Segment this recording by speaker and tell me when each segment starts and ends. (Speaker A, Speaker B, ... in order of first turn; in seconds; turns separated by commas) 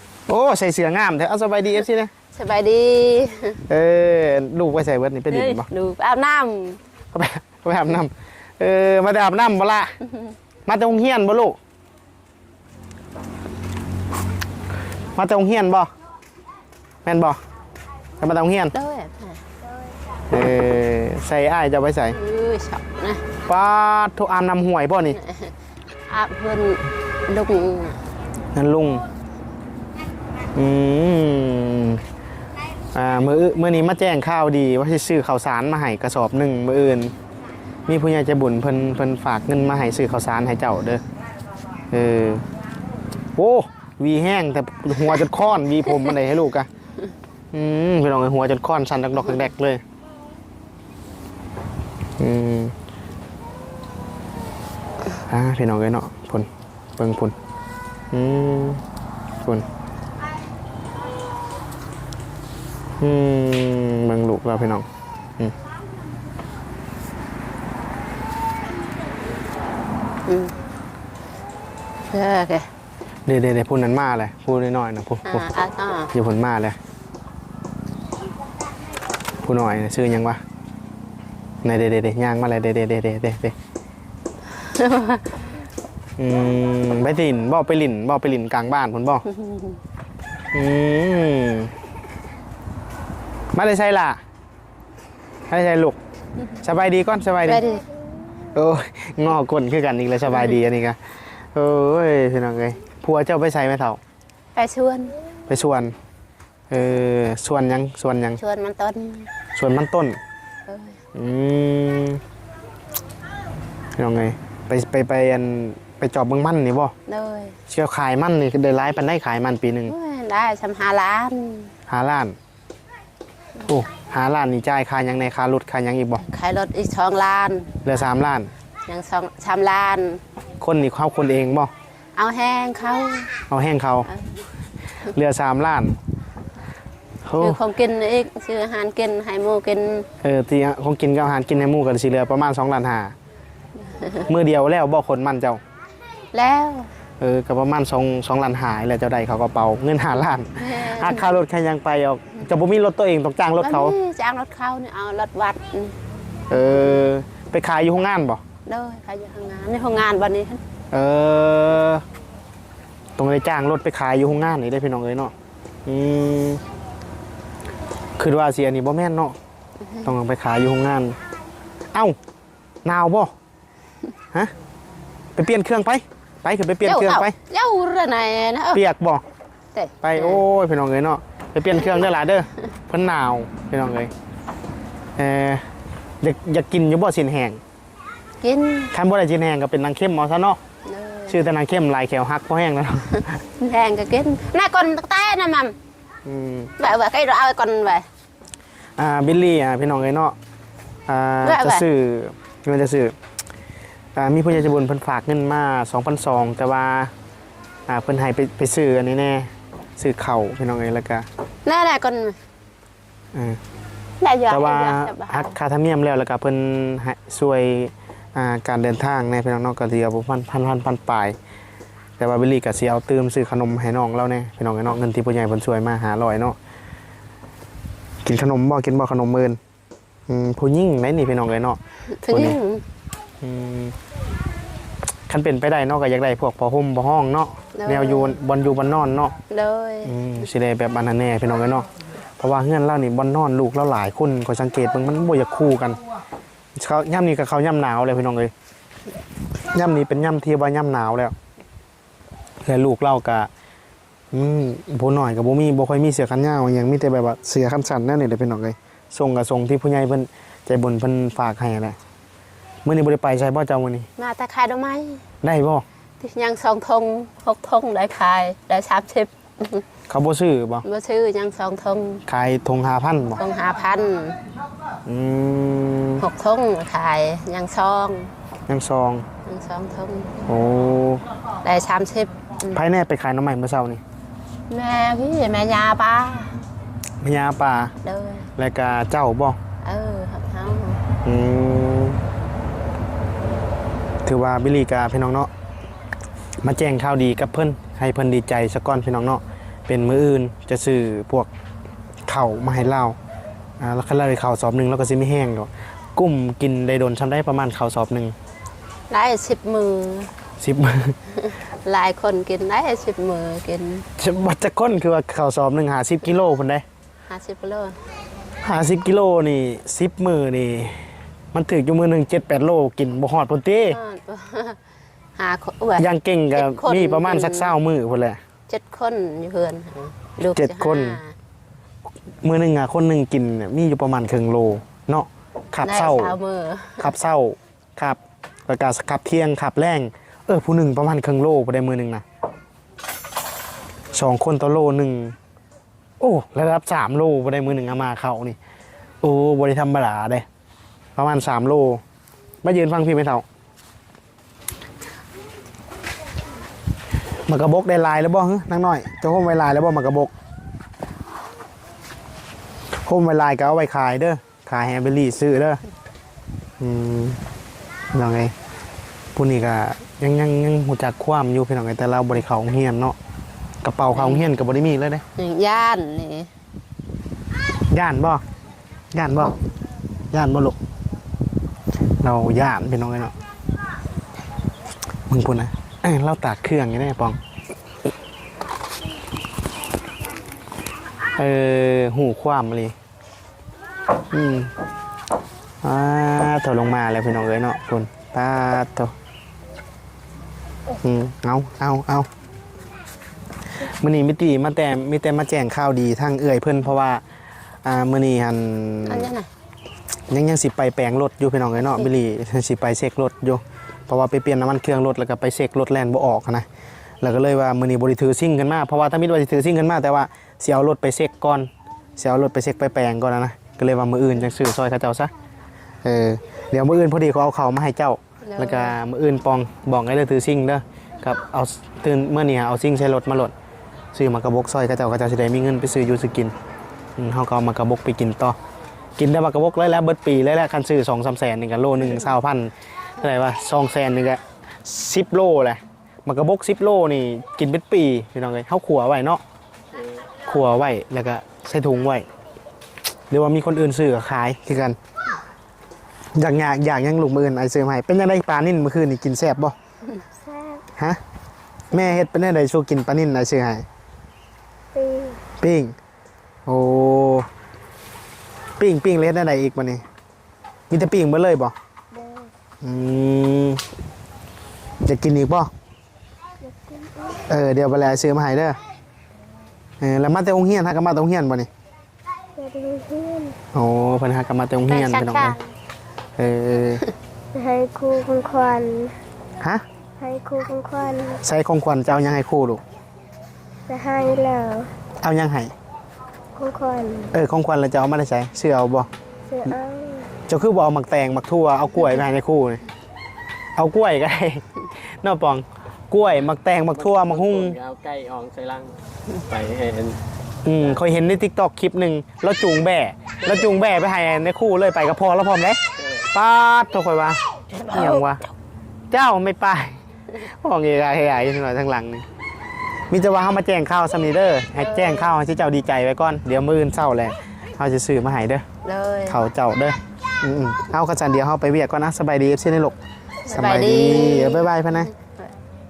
Speaker A: 0.3-2.1, Speaker B: 2.3-3.6, Speaker A: 3.7-5.7, Speaker B: 5.3-6.8, Speaker A: 7.1-9.9, Speaker A: 10.7-11.6, Speaker A: 15.1-15.9, Speaker A: 17.0-17.4, Speaker A: 18.2-18.7, Speaker B: 18.7-19.4, Speaker A: 20.3-22.2, Speaker B: 22.1-23.2, Speaker A: 23.4-25.2, Speaker B: 25.2-25.5, Speaker B: 26.1-28.0, Speaker A: 28.5-29.0, Speaker A: 30.5-32.0, Speaker A: 32.9-37.1, Speaker A: 37.9-41.0, Speaker A: 41.9-42.4, Speaker A: 43.4-46.7, Speaker A: 47.5-49.8, Speaker A: 52.2-52.7, Speaker A: 55.3-57.3, Speaker A: 58.1-58.8, Speaker A: 63.0-64.8, Speaker B: 70.3-70.6, Speaker B: 72.1-72.7, Speaker A: 73.2-75.5, Speaker B: 75.2-76.1, Speaker A: 76.1-76.8, Speaker A: 79.4-80.4, Speaker A: 81.6-83.5, Speaker B: 84.6-85.4, Speaker A: 86.2-89.2, Speaker B: 89.3-89.8, Speaker A: 90.5-91.7, Speaker A: 93.5-94.2, Speaker A: 95.5-96.0, Speaker A: 96.6-97.7, Speaker B: 97.4-97.9, Speaker A: 98.5-101.0, Speaker A: 101.5-104.0, Speaker B: 104.5-105.2, Speaker A: 105.5-105.9, Speaker A: 106.7-108.4, Speaker B: 108.4-109.3, Speaker A: 109.5-110.2, Speaker B: 110.7-111.0, Speaker A: 111.1-112.2, Speaker A: 114.0-116.9, Speaker B: 117.1-117.6, Speaker A: 117.7-119.9, Speaker B: 119.9-121.7, Speaker A: 121.9-122.3, Speaker A: 123.6-126.2, Speaker B: 126.2-127.8, Speaker A: 127.8-128.5, Speaker B: 128.9-130.2, Speaker A: 130.6-131.7, Speaker B: 132.1-133.4, Speaker A: 133.5-134.1, Speaker B: 134.1-134.4, Speaker A: 135.0-135.9, Speaker A: 137.2-137.6, Speaker B: 137.4-140.1, Speaker A: 140.2-143.1, Speaker B: 144.0-144.2, Speaker A: 144.2-145.6, Speaker B: 146.3-146.9, Speaker A: 147.2-153.9, Speaker B: 150.6-151.4, Speaker B: 153.6-156.0, Speaker A: 156.5-158.4, Speaker B: 158.7-160.6, Speaker A: 160.9-162.0, Speaker A: 163.2-165.3, Speaker A: 165.8-166.6, Speaker A: 168.2-169.3, Speaker A: 170.0-171.2, Speaker A: 172.8-173.3, Speaker A: 175.3-177.3, Speaker B: 176.8-178.8, Speaker A: 178.7-179.2, Speaker B: 179.7-180.4, Speaker A: 180.0-184.1, Speaker A: 185.2-185.6, Speaker A: 186.2-187.6, Speaker B: 188.4-188.9, Speaker A: 188.9-190.6, Speaker B: 190.8-191.4, Speaker A: 191.3-193.4, Speaker B: 193.6-195.7, Speaker A: 196.2-196.7, Speaker B: 196.8-198.1, Speaker A: 199.0-200.3, Speaker A: 201.1-203.1, Speaker B: 201.4-201.8, Speaker A: 204.1-207.1, Speaker A: 207.9-211.2, Speaker B: 211.7-212.4, Speaker A: 213.3-213.6, Speaker B: 214.2-215.6, Speaker A: 214.5-221.3, Speaker A: 222.2-226.6, Speaker A: 228.2-229.6, Speaker A: 230.3-232.6, Speaker B: 232.2-232.8, Speaker A: 233.4-233.9, Speaker A: 235.3-239.3, Speaker B: 237.8-238.4, Speaker B: 239.5-240.1, Speaker A: 240.0-241.9, Speaker A: 242.4-246.0, Speaker A: 246.8-248.5, Speaker A: 249.7-251.3, Speaker A: 252.6-253.5, Speaker A: 254.3-261.9, Speaker A: 262.8-264.1, Speaker B: 264.2-265.2, Speaker A: 265.4-265.8, Speaker B: 266.2-269.9, Speaker A: 270.1-270.8, Speaker B: 270.8-272.2, Speaker A: 272.3-273.4, Speaker B: 273.4-274.4, Speaker A: 275.1-276.2, Speaker B: 276.2-278.3, Speaker A: 278.7-279.2, Speaker B: 279.4-280.4, Speaker A: 280.5-281.2, Speaker B: 281.6-282.8, Speaker A: 282.7-284.0, Speaker B: 284.7-286.6, Speaker A: 287.2-287.9, Speaker B: 288.0-288.5, Speaker A: 288.6-289.6, Speaker B: 289.8-291.0, Speaker A: 291.2-292.2, Speaker A: 294.2-295.5, Speaker A: 296.6-301.5, Speaker A: 302.3-303.2, Speaker A: 303.8-308.3, Speaker B: 309.1-310.3, Speaker A: 310.6-311.1, Speaker B: 311.4-314.1, Speaker A: 314.2-316.8, Speaker B: 317.3-318.0, Speaker A: 318.6-324.0, Speaker B: 323.9-324.8, Speaker B: 325.4-327.7, Speaker A: 326.0-328.4, Speaker B: 328.7-331.4, Speaker A: 330.5-331.2, Speaker A: 332.4-336.4, Speaker B: 335.8-337.1, Speaker A: 337.0-342.2, Speaker A: 344.1-345.4, Speaker A: 346.2-348.6, Speaker A: 349.2-350.4, Speaker A: 351.1-352.0, Speaker A: 352.6-353.4, Speaker A: 357.5-360.3, Speaker A: 363.0-365.8, Speaker A: 366.8-367.4, Speaker A: 368.1-368.5, Speaker A: 369.3-373.1, Speaker A: 373.8-375.2, Speaker B: 374.1-374.4, Speaker B: 375.4-376.5, Speaker A: 377.9-378.4, Speaker A: 379.1-379.6, Speaker A: 380.3-380.8, Speaker A: 382.2-383.3, Speaker A: 385.3-387.4, Speaker A: 391.4-392.9, Speaker A: 394.3-394.7, Speaker A: 395.8-399.1, Speaker A: 401.0-402.3, Speaker A: 403.8-407.2, Speaker A: 407.8-409.3, Speaker B: 409.1-409.5, Speaker A: 410.3-416.6, Speaker A: 417.2-425.3, Speaker A: 426.0-433.5, Speaker B: 428.4-429.0, Speaker A: 434.1-436.5, Speaker A: 437.2-438.6, Speaker A: 439.2-449.4, Speaker A: 450.4-452.3, Speaker A: 453.3-455.0, Speaker A: 456.3-459.7, Speaker C: 460.5-460.8, Speaker A: 461.9-463.8, Speaker C: 464.9-465.4, Speaker A: 465.6-465.9, Speaker A: 466.6-467.5, Speaker A: 468.8-470.0, Speaker A: 470.9-471.7, Speaker A: 472.8-473.8, Speaker A: 475.0-475.7, Speaker A: 477.4-478.8, Speaker A: 480.0-481.7, Speaker C: 482.6-483.6, Speaker A: 483.7-485.6, Speaker B: 484.9-485.6, Speaker A: 486.4-487.1, Speaker C: 487.5-489.1, Speaker C: 490.2-491.4, Speaker A: 491.4-492.8, Speaker C: 493.9-494.9, Speaker A: 495.2-495.7, Speaker C: 496.6-497.3, Speaker A: 497.3-499.1, Speaker C: 499.5-500.3, Speaker A: 500.5-502.8, Speaker A: 503.8-507.8, Speaker D: 507.1-510.2, Speaker A: 510.6-518.5, Speaker B: 517.8-518.2, Speaker A: 519.1-522.2, Speaker A: 523.1-528.6, Speaker B: 528.8-529.4, Speaker A: 529.3-533.0, Speaker B: 533.4-535.5, Speaker A: 533.5-535.1